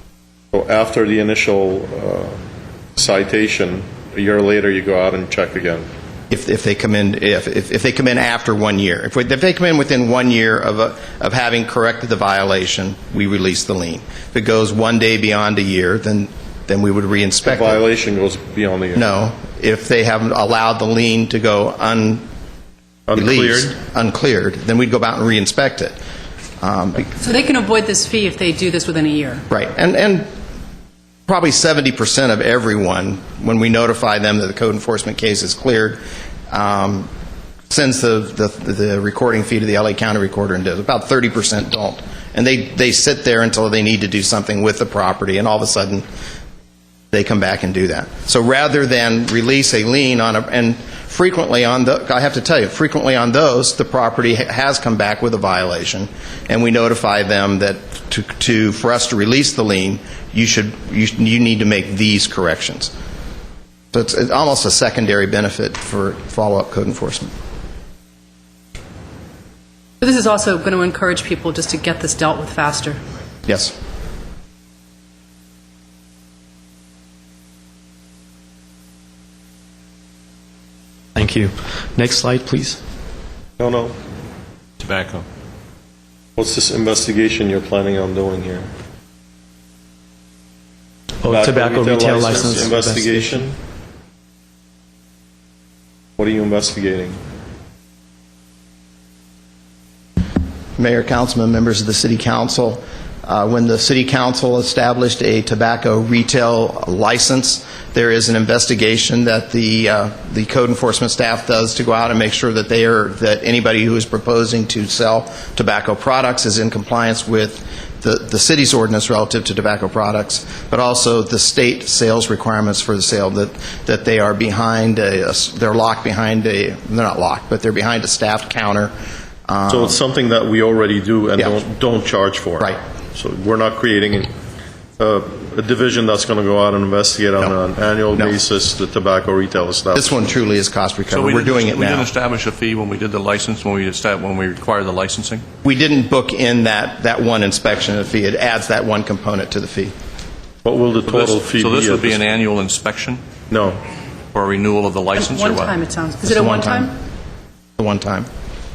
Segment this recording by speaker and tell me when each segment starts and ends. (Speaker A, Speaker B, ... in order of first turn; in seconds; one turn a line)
Speaker A: 0.5-2.4
Speaker A: 3.0-5.8
Speaker B: 6.3-17.8
Speaker A: 17.4-19.1
Speaker B: 18.9-22.2
Speaker A: 23.1-23.8
Speaker B: 23.1-25.9
Speaker B: 26.6-27.1
Speaker C: 27.2-29.4
Speaker B: 29.5-30.3
Speaker B: 31.3-37.1
Speaker B: 37.7-46.0
Speaker B: 47.1-62.9
Speaker B: 63.9-67.3
Speaker C: 70.0-73.0
Speaker B: 73.5-73.7
Speaker D: 81.1-82.8
Speaker A: 83.6-84.0
Speaker E: 84.8-85.2
Speaker A: 86.4-88.7
Speaker D: 91.2-93.4
Speaker A: 91.3-93.6
Speaker A: 96.2-97.2
Speaker B: 100.8-128.9
Speaker B: 129.5-130.0
Speaker A: 129.7-134.3
Speaker A: 135.0-140.2
Speaker B: 139.9-142.1
Speaker E: 141.1-145.4
Speaker B: 145.6-149.9
Speaker A: 150.6-152.3
Speaker E: 151.1-153.2
Speaker A: 153.5-153.8
Speaker E: 154.3-155.7
Speaker C: 155.1-156.9
Speaker B: 156.2-156.9
Speaker B: 157.8-158.3